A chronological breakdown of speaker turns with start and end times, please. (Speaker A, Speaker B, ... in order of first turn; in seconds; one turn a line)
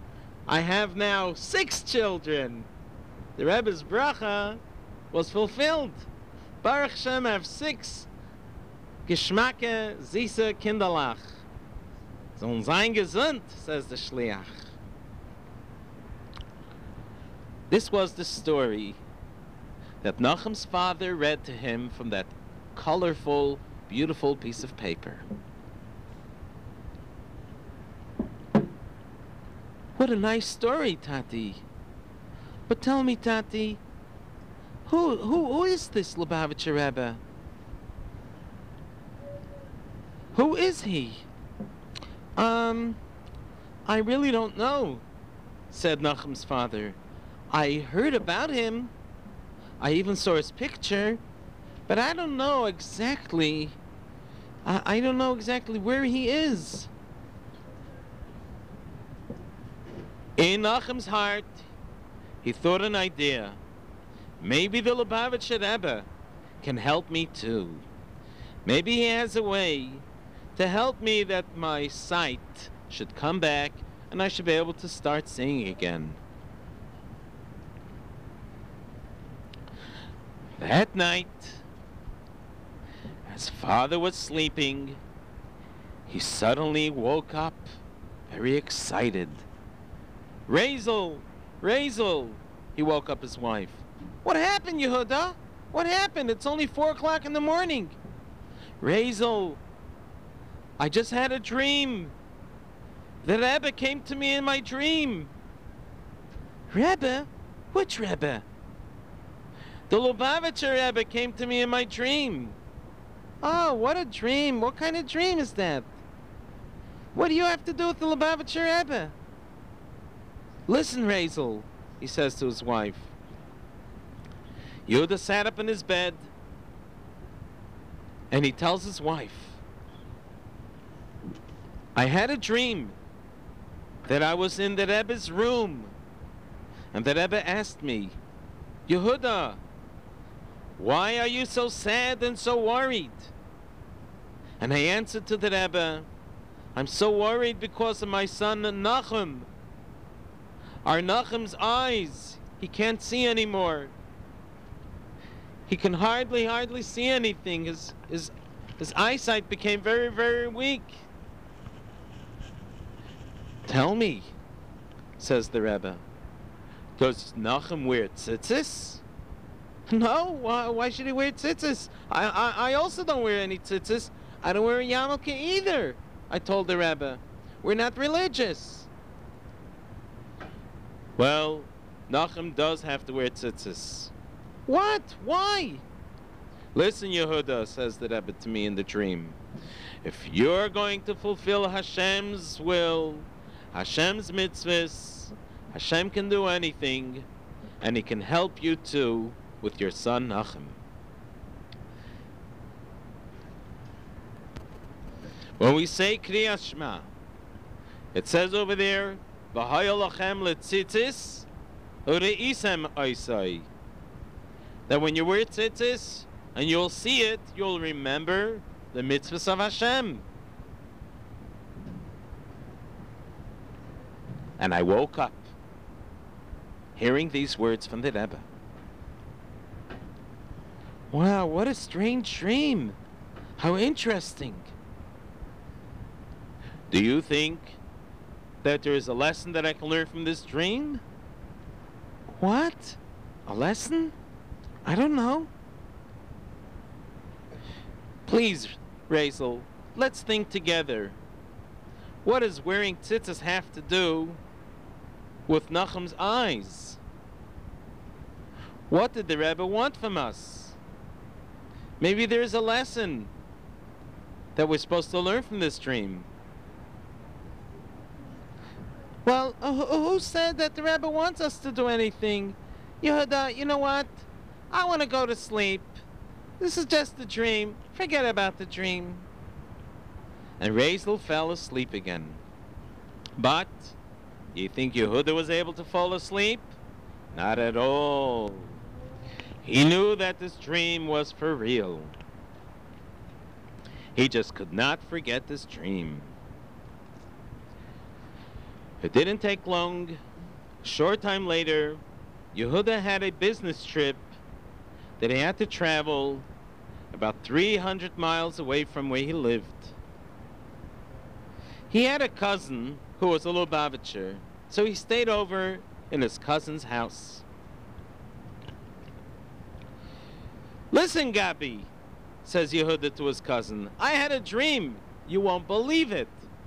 Speaker A: 0.5-2.7
Speaker A: 3.4-4.6
Speaker A: 5.1-6.1
Speaker A: 6.6-8.1
Speaker A: 9.1-11.4
Speaker A: 12.3-14.7
Speaker A: 17.7-19.0
Speaker A: 20.0-25.3
Speaker A: 29.9-31.6
Speaker A: 32.7-33.8
Speaker A: 34.9-37.2
Speaker A: 40.3-41.3
Speaker A: 42.4-43.0
Speaker A: 43.9-45.0
Speaker A: 45.7-47.0
Speaker A: 47.5-48.9
Speaker A: 49.8-51.2
Speaker A: 51.9-53.8
Speaker A: 54.6-56.9
Speaker A: 60.4-61.6
Speaker A: 62.4-63.6
Speaker A: 64.4-66.1
Speaker A: 66.6-67.8
Speaker A: 68.6-70.0
Speaker A: 70.6-76.2
Speaker A: 80.6-81.6
Speaker A: 83.3-85.0
Speaker A: 86.1-87.7
Speaker A: 88.3-89.5
Speaker A: 90.5-98.0
Speaker A: 98.8-99.6
Speaker A: 100.8-102.1
Speaker A: 103.2-105.3
Speaker A: 106.7-108.5
Speaker A: 109.9-112.6
Speaker A: 113.4-115.9
Speaker A: 117.1-119.1
Speaker A: 120.7-123.1
Speaker A: 124.9-126.3
Speaker A: 128.3-129.6
Speaker A: 131.9-133.0
Speaker A: 134.1-135.9
Speaker A: 136.9-138.2
Speaker A: 138.9-139.6
Speaker A: 140.8-143.3
Speaker A: 144.6-146.1
Speaker A: 146.8-149.5
Speaker A: 150.8-153.9
Speaker A: 155.7-161.1
Speaker A: 163.6-164.3
Speaker A: 165.2-166.0
Speaker A: 167.0-169.0
Speaker A: 169.9-178.9
Speaker A: 181.2-184.1
Speaker A: 184.7-185.8
Speaker A: 186.7-189.4
Speaker A: 190.0-197.3
Speaker A: 197.8-200.8
Speaker A: 205.6-207.1
Speaker A: 208.1-211.5
Speaker A: 212.1-213.7
Speaker A: 214.9-220.3
Speaker A: 224.6-225.5
Speaker A: 226.9-228.5
Speaker A: 231.1-233.0
Speaker A: 233.6-234.7
Speaker A: 236.9-237.8
Speaker A: 238.6-241.0
Speaker A: 242.3-244.2
Speaker A: 244.8-245.5
Speaker A: 248.3-251.2
Speaker A: 252.2-254.4
Speaker A: 255.5-257.0
Speaker A: 258.9-260.8
Speaker A: 262.0-263.3
Speaker A: 264.6-266.3
Speaker A: 269.2-276.0
Speaker A: 276.6-279.3
Speaker A: 280.6-282.4
Speaker A: 283.4-283.9
Speaker A: 284.6-286.8
Speaker A: 287.3-288.8
Speaker A: 289.6-292.1
Speaker A: 294.1-296.3
Speaker A: 299.0-300.2
Speaker A: 300.8-302.0
Speaker A: 302.5-304.3
Speaker A: 305.2-306.5
Speaker A: 307.1-309.9
Speaker A: 311.9-317.4
Speaker A: 320.9-321.9
Speaker A: 322.4-326.5